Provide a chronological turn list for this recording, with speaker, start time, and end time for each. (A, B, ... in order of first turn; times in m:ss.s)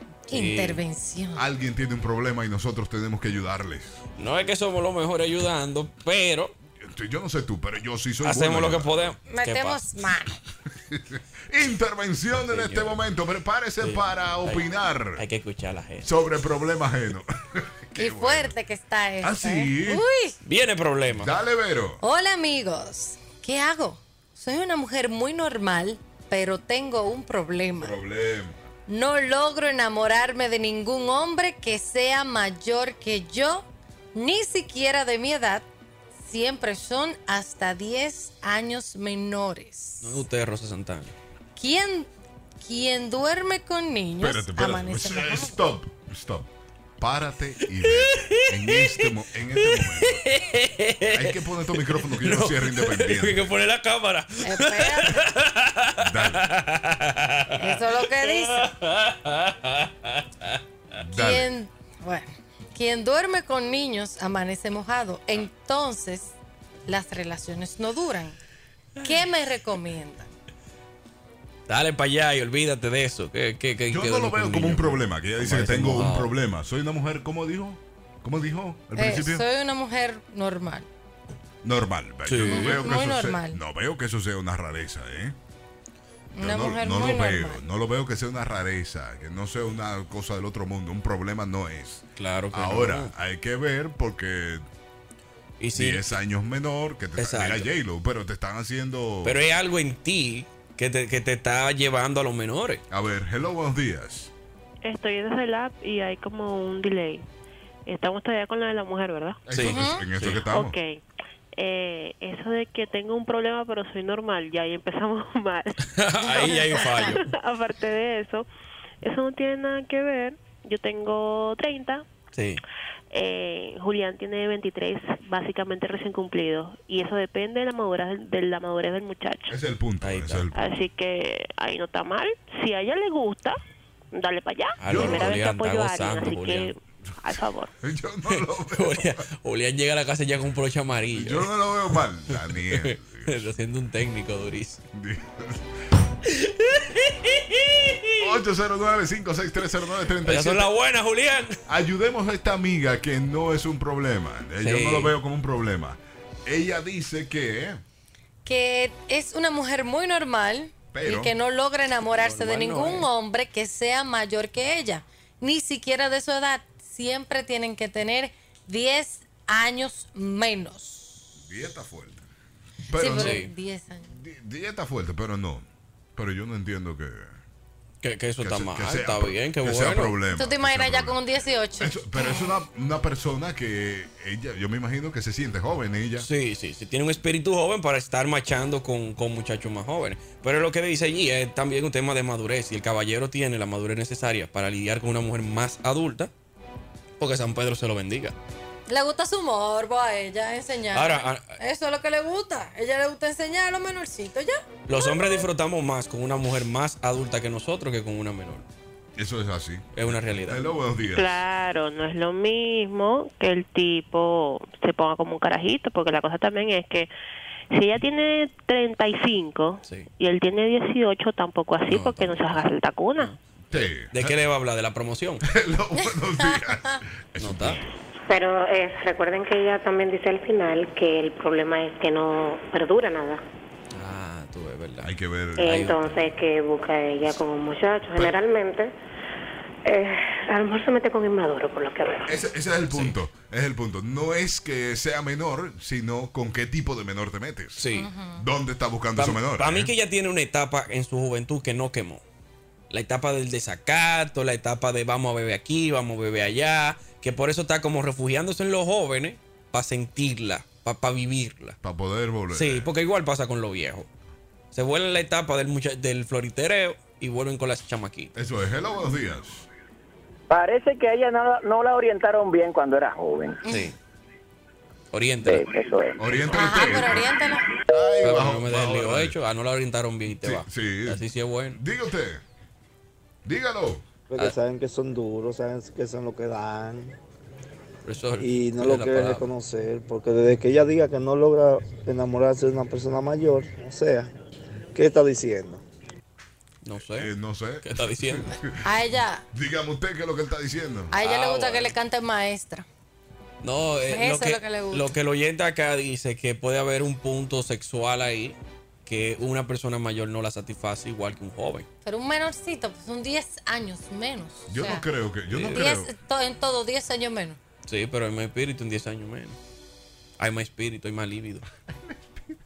0:00.3-0:01.4 A
0:00.3-0:00.8 B
0:01.4-0:04.0 C
0:04.2-0:06.6 B
0:06.8-0:09.2 C
0:08.2-0:09.8 B
0:09.3-0:10.4 A
0:10.9-0:15.2 C
0:12.5-0:13.0 B
0:13.8-0:14.6 B
0:15.2-0:16.1 B
0:16.0-0:18.6 C
0:18.0-0:20.4 A
0:19.2-0:20.0 C
0:20.4-0:21.3 B
0:21.1-0:22.0 C
0:22.0-0:27.9 A
0:27.8-0:28.6 C
0:28.9-0:35.7 A
0:36.2-0:40.2 A
0:40.0-0:41.2 B
0:41.6-0:42.1 A
0:42.6-0:45.6 A
0:44.2-0:46.5 C
0:47.0-0:50.2 C
0:47.8-0:49.1 B
0:49.6-1:00.6 B
0:51.1-0:53.5 C
0:54.4-0:55.2 A
0:56.0-0:56.5 C
0:57.6-0:58.7 A
1:01.0-1:01.5 C
1:01.2-1:06.4 A
1:06.9-1:08.4 A
1:09.0-1:10.2 A
1:11.7-1:16.3 B
1:13.9-1:19.4 C
1:19.0-1:20.9 A
1:21.6-1:25.4 C
1:22.3-1:22.8 B
1:22.4-1:23.6 A
1:26.4-1:34.6 C
1:26.4-1:27.6 A
1:32.2-1:33.1 B
1:35.6-1:36.1 B
1:35.8-1:39.4 C
1:37.2-1:37.7 B
1:39.2-1:42.8 B
1:42.9-1:44.3 C
1:44.8-1:47.3 D
1:47.9-1:49.4 D
1:49.5-1:50.8 C
1:49.5-1:50.4 B
1:49.7-1:50.0 A
1:50.4-1:51.0 D
1:51.6-1:58.5 D
1:56.0-1:57.2 B
1:59.0-2:02.0 D
2:02.3-2:02.6 B
2:03.1-2:09.5 D
2:09.5-2:10.6 C
2:10.0-2:10.5 B
2:10.6-2:13.6 D
2:14.1-2:17.7 D
2:14.8-2:16.7 B
2:14.9-2:15.3 C
2:17.8-2:19.1 C
2:18.3-2:21.5 B
2:21.1-2:23.5 C
2:22.3-2:24.8 B
2:24.9-2:25.7 C
2:26.3-2:28.2 B
2:28.2-2:30.7 C
2:30.2-2:31.6 B
2:31.7-2:37.8 C
2:34.6-2:35.2 B
2:38.4-2:51.3 A
2:40.9-2:41.3 C
2:42.1-2:43.1 B
2:51.4-2:52.2 C
2:52.9-2:53.4 C
2:52.9-2:54.1 A
2:53.1-2:53.5 B
2:54.1-2:57.4 C
2:58.0-3:00.1 B
2:58.4-3:01.2 C
3:00.3-3:02.5 A
3:01.8-3:06.3 C
3:06.2-3:16.3 B
3:17.2-3:18.4 B
3:18.9-3:25.1 A
3:20.9-3:21.6 B
3:24.9-3:28.7 B
3:29.2-3:31.4 C
3:29.9-3:30.7 B
3:31.1-3:37.1 D
3:37.7-3:43.3 D
3:41.9-3:42.6 B
3:43.7-3:44.4 C
3:44.1-3:45.4 B
3:45.4-3:47.8 C
3:47.4-3:47.8 B
3:48.3-3:53.4 E
3:53.9-3:56.2 B
3:55.0-3:55.9 C
3:55.6-3:58.9 E
3:59.9-4:02.3 E
4:02.3-4:07.8 C
4:02.9-4:03.2 B
4:07.8-4:08.1 B
4:08.0-4:08.4 A
4:08.4-4:09.9 C
4:09.2-4:12.2 B
4:12.9-4:21.8 B
4:21.8-4:22.9 C
4:22.5-4:24.1 B
4:24.7-4:28.3 B
4:28.4-4:29.7 C
4:30.5-4:33.6 F
4:33.7-4:34.0 B
4:35.1-4:35.7 B
4:35.4-4:36.2 F
4:36.2-4:37.3 C
4:36.5-4:37.6 A
4:37.9-4:39.4 C
4:38.2-4:41.8 B
4:40.4-4:41.2 C
4:41.7-4:42.4 C
4:43.4-4:44.1 C
4:44.3-4:47.2 G
4:48.0-4:49.5 B
4:48.4-4:54.3 G
4:54.9-4:55.8 G
4:56.8-4:57.3 B
4:57.1-4:58.8 C
4:57.8-4:58.5 B
4:58.8-4:59.4 A
4:59.5-5:01.1 C
5:01.1-5:02.8 A
5:01.2-5:02.0 B
5:03.6-5:11.9 B
5:04.1-5:05.1 A
5:12.0-5:15.0 A
5:14.7-5:16.1 C
5:15.5-5:15.8 B
5:15.7-5:17.6 A
5:17.9-5:19.6 B
5:20.4-5:21.7 B
5:21.9-5:22.4 C